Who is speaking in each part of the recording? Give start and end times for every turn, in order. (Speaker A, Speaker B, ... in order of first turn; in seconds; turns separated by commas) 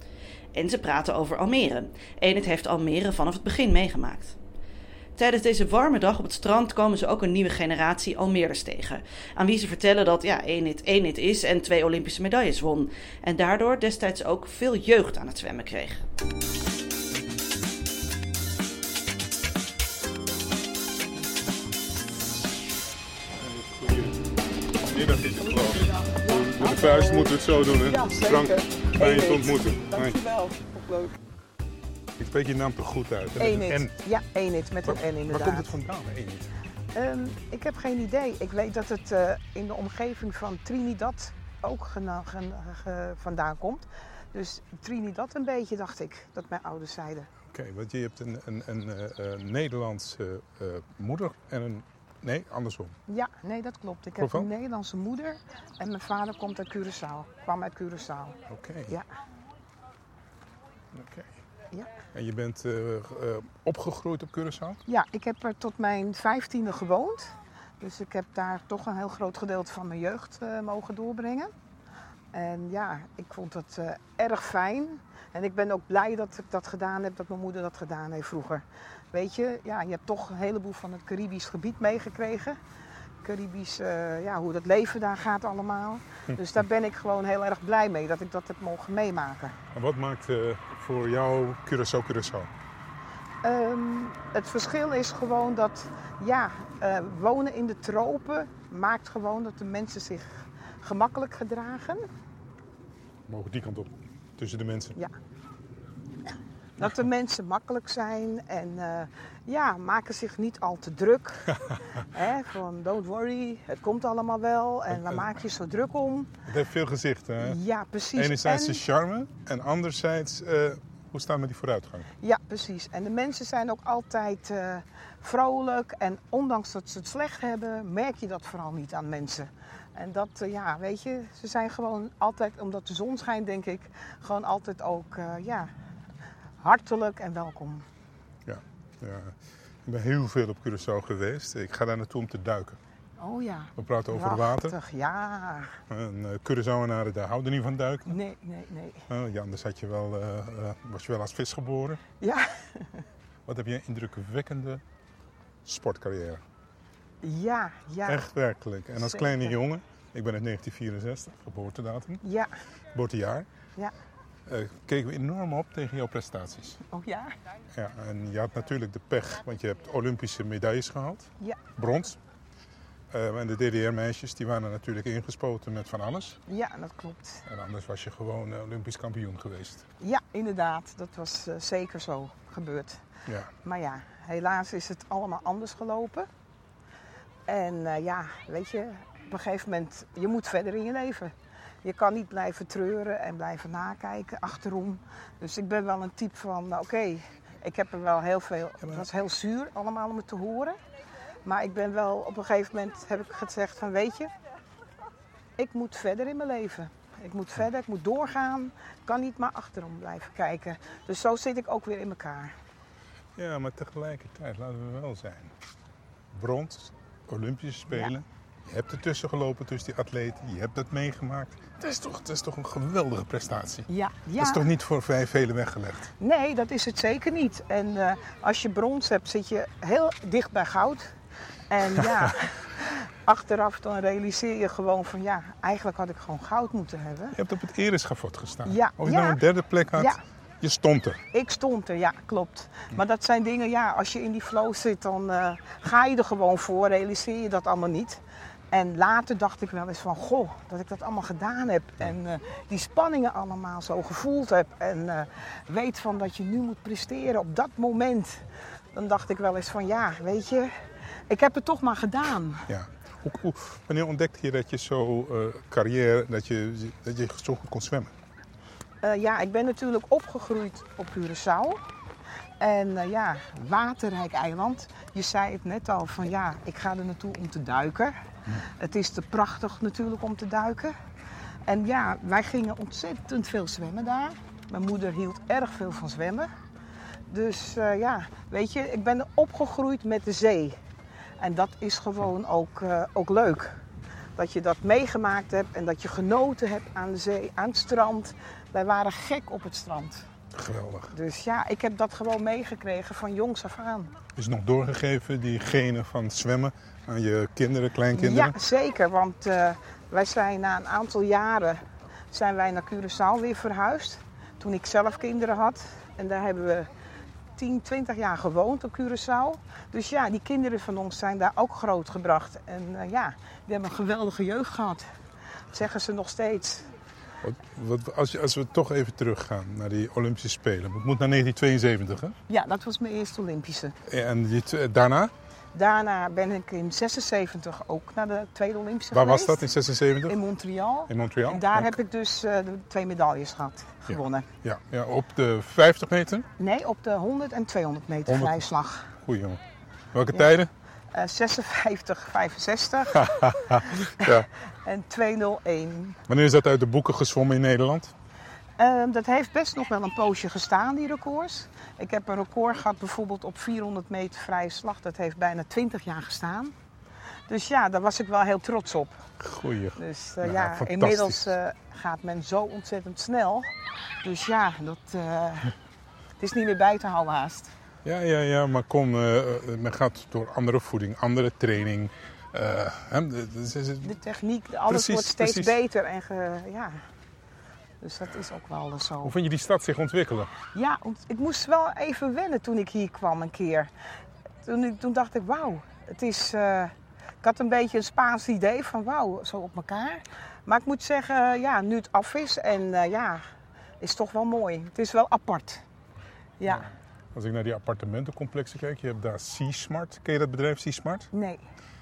Speaker A: 0.5-4.3, Speaker A: 5.2-16.0, Speaker B: 23.4-30.2, Speaker C: 25.5-31.1, Speaker B: 32.2-33.9, Speaker C: 33.4-35.7, Speaker B: 34.8-36.5, Speaker C: 36.9-47.3, Speaker B: 47.5-53.0, Speaker C: 53.1-58.4, Speaker B: 54.2-54.5, Speaker B: 58.5-59.0, Speaker B: 60.9-61.4, Speaker B: 62.1-64.8, Speaker C: 64.9-71.5, Speaker C: 72.3-82.6, Speaker C: 83.2-89.6, Speaker B: 89.7-92.5, Speaker C: 93.4-102.1, Speaker B: 103.3-105.0, Speaker C: 106.8-116.3, Speaker B: 114.9-115.3, Speaker B: 116.5-117.6, Speaker C: 117.4-118.8, Speaker B: 118.2-122.1, Speaker C: 122.2-135.7, Speaker C: 136.6-137.8, Speaker B: 138.4-142.8, Speaker C: 143.2-145.8, Speaker B: 143.8-144.8, Speaker B: 145.9-148.2, Speaker C: 148.1-149.1, Speaker B: 149.1-152.0, Speaker C: 152.2-153.0, Speaker B: 153.4-154.8, Speaker B: 155.6-156.4, Speaker C: 157.2-158.2, Speaker B: 158.1-162.2, Speaker C: 159.0-159.5, Speaker C: 162.2-162.5, Speaker B: 162.9-163.5, Speaker B: 164.4-166.8, Speaker C: 166.9-167.3, Speaker B: 167.7-172.2, Speaker B: 173.1-176.4, Speaker C: 176.5-177.4, Speaker B: 177.4-179.8, Speaker C: 180.0-183.0, Speaker C: 183.6-186.3, Speaker C: 187.5-200.8, Speaker C: 201.4-204.3, Speaker C: 205.6-212.5, Speaker B: 213.3-215.5, Speaker B: 216.3-226.1, Speaker C: 223.9-224.7, Speaker C: 226.2-231.1, Speaker C: 231.7-237.4, Speaker B: 231.9-232.3, Speaker B: 237.3-241.2, Speaker C: 238.7-239.4, Speaker C: 239.9-240.2, Speaker C: 241.3-260.8, Speaker C: 261.3-262.7, Speaker B: 262.7-268.1, Speaker C: 269.0-271.8, Speaker C: 272.6-280.9, Speaker C: 281.7-286.5, Speaker C: 287.3-290.8, Speaker C: 291.4-293.8, Speaker C: 294.4-300.2, Speaker B: 300.5-301.1, Speaker C: 301.1-304.1, Speaker B: 304.3-308.6, Speaker C: 308.1-316.9, Speaker C: 317.6-325.1, Speaker C: 325.7-326.9, Speaker B: 327.4-332.4, Speaker C: 332.5-333.9, Speaker B: 334.1-335.3, Speaker C: 335.7-339.6, Speaker B: 339.1-340.4, Speaker C: 340.3-344.5, Speaker B: 341.1-341.9, Speaker B: 344.1-346.5, Speaker C: 346.6-349.1, Speaker B: 348.3-349.6, Speaker B: 350.1-350.7, Speaker C: 351.1-356.2, Speaker B: 353.1-354.5, Speaker B: 356.3-358.1, Speaker C: 358.8-366.7, Speaker C: 367.5-369.2, Speaker B: 369.4-371.5, Speaker C: 369.9-373.7, Speaker C: 374.2-375.7, Speaker C: 376.4-377.7, Speaker B: 378.0-384.1, Speaker C: 384.0-387.0, Speaker B: 384.9-385.8, Speaker C: 388.0-389.3, Speaker B: 389.2-390.5, Speaker C: 390.7-393.9, Speaker C: 394.6-403.4, Speaker C: 404.0-405.8, Speaker C: 406.6-406.9, Speaker B: 406.6-411.3, Speaker C: 411.3-411.6